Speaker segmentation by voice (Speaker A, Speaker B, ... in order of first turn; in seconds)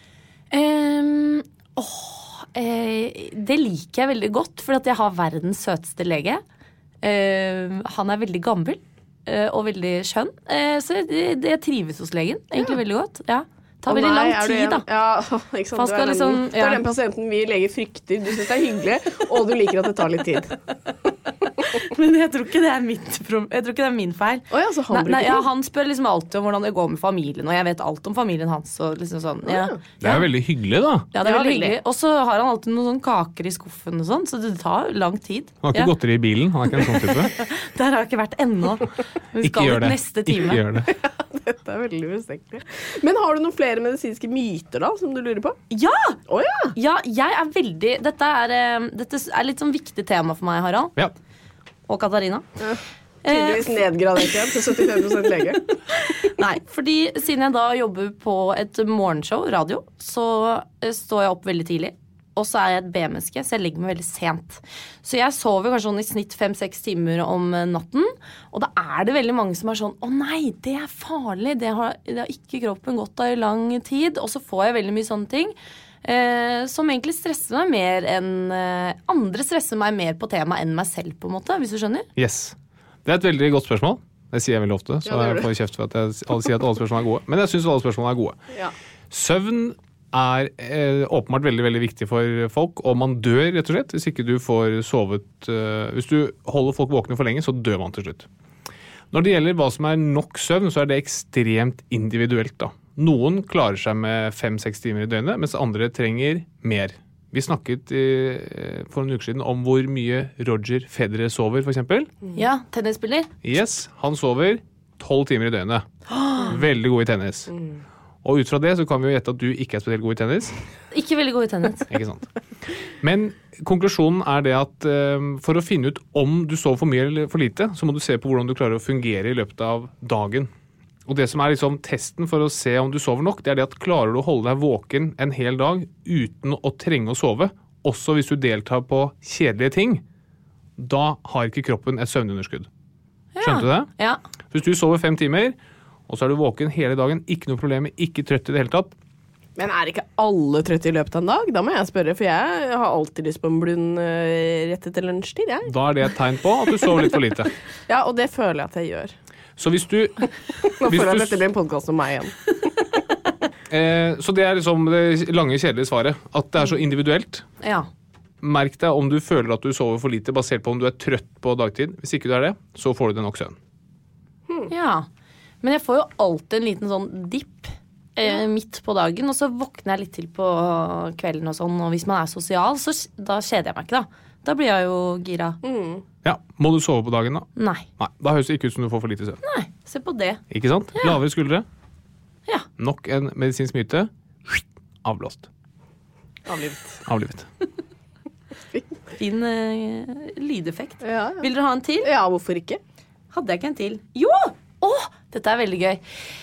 Speaker A: 0.5-6.4, 7.0-14.8, 15.7-16.8, 21.7-30.3, 31.1-35.9, 36.7-40.6, 45.7-46.2, 46.7-50.9, 51.9-52.5, 53.2-53.7, 56.2-82.1, 112.3-113.3, 116.1-116.6, 120.9-121.9, 143.3-144.2, 167.6-167.9, 174.7-175.1, 175.6-185.6, 187.6-187.8, 189.4-190.4, 199.2-202.1, 203.3-206.0
Speaker B: 13.9-20.6, 24.5-25.5, 29.4-29.8, 31.2-31.8, 40.9-45.6, 46.3-46.7, 52.6-55.6, 85.0-85.5, 149.6-155.7, 157.9-159.1, 160.8-162.4, 185.6-186.0, 196.5-197.0, 201.0-201.5, 202.0-202.8
Speaker C: 30.0-31.1, 35.6-37.3, 39.4-40.9, 82.2-88.4, 89.1-98.3, 99.1-112.1, 113.4-115.9, 116.5-117.5, 118.2-120.5, 121.9-122.2, 123.0-130.5, 131.1-140.0, 140.8-142.7, 143.4-143.9, 144.5-145.6, 146.1-148.9, 155.7-157.5, 159.6-161.4, 163.7-167.5, 168.4-173.6, 186.2-189.4, 190.5-191.7, 192.8-195.5, 197.0-197.5